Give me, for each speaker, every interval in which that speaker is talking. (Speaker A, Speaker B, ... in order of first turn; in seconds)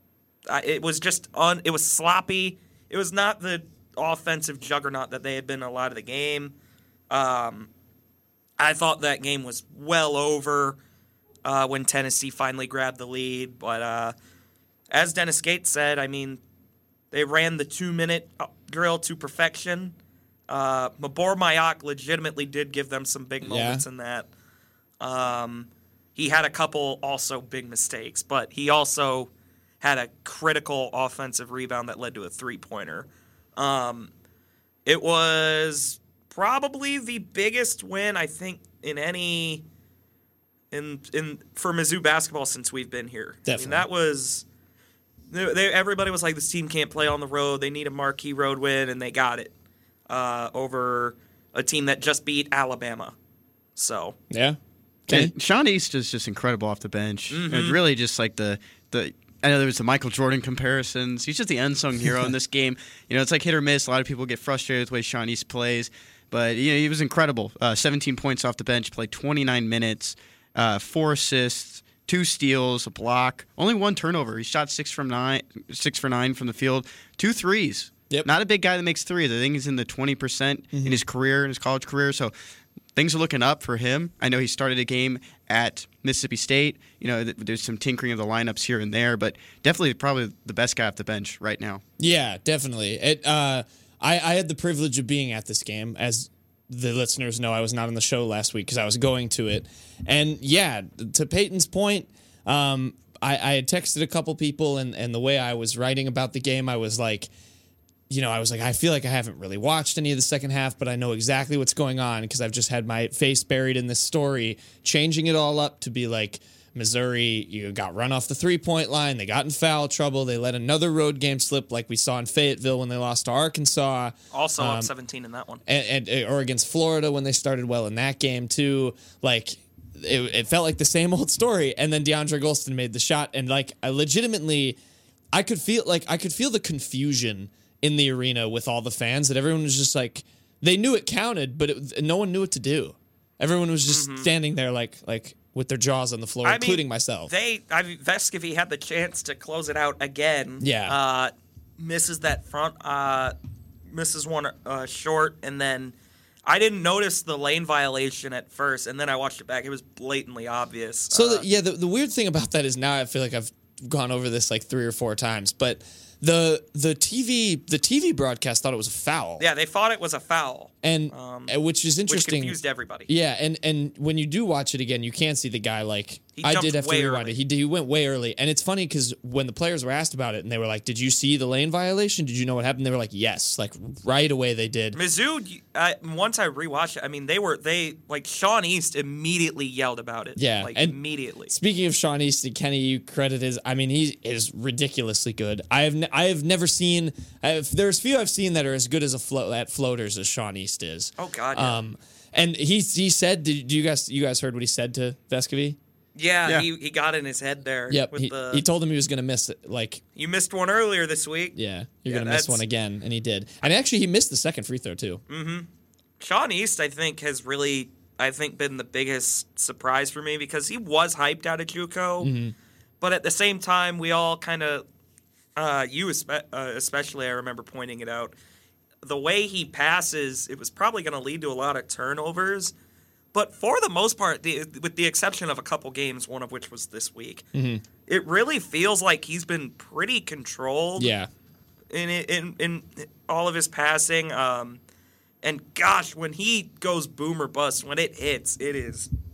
Speaker A: 0.5-6.5, 7.1-7.7, 8.6-10.8, 11.4-14.2, 14.9-16.4, 17.1-19.9, 20.5-24.3, 25.0-29.3, 29.8-34.1, 34.9-39.6, 40.7-44.4, 45.3-49.5, 50.1-53.1, 53.8-54.2, 57.3-57.8, 124.3-125.6, 143.9-144.3, 146.4-153.3, 153.9-161.4, 169.4-171.5, 172.1-173.1, 176.4-177.3, 184.9-191.5, 201.2-201.8, 206.2-208.6, 210.2-212.6, 215.3-215.7, 216.2-222.3, 223.0-224.8, 225.6-228.3, 229.0-232.7, 233.3-237.4, 238.1-241.1, 241.9-244.8, 245.4-249.1
Speaker B: 23.4-23.8, 43.4-43.9, 54.3-55.3, 80.7-81.0, 92.0-107.3, 108.1-124.9, 125.7-134.8, 135.3-147.3, 150.6-151.0, 161.1-169.4, 170.8-185.0, 190.4-205.8, 207.9-210.0, 211.6-215.2, 222.2-222.6, 237.5-237.8, 241.0-241.3
Speaker C: 55.1-82.3, 82.9-91.8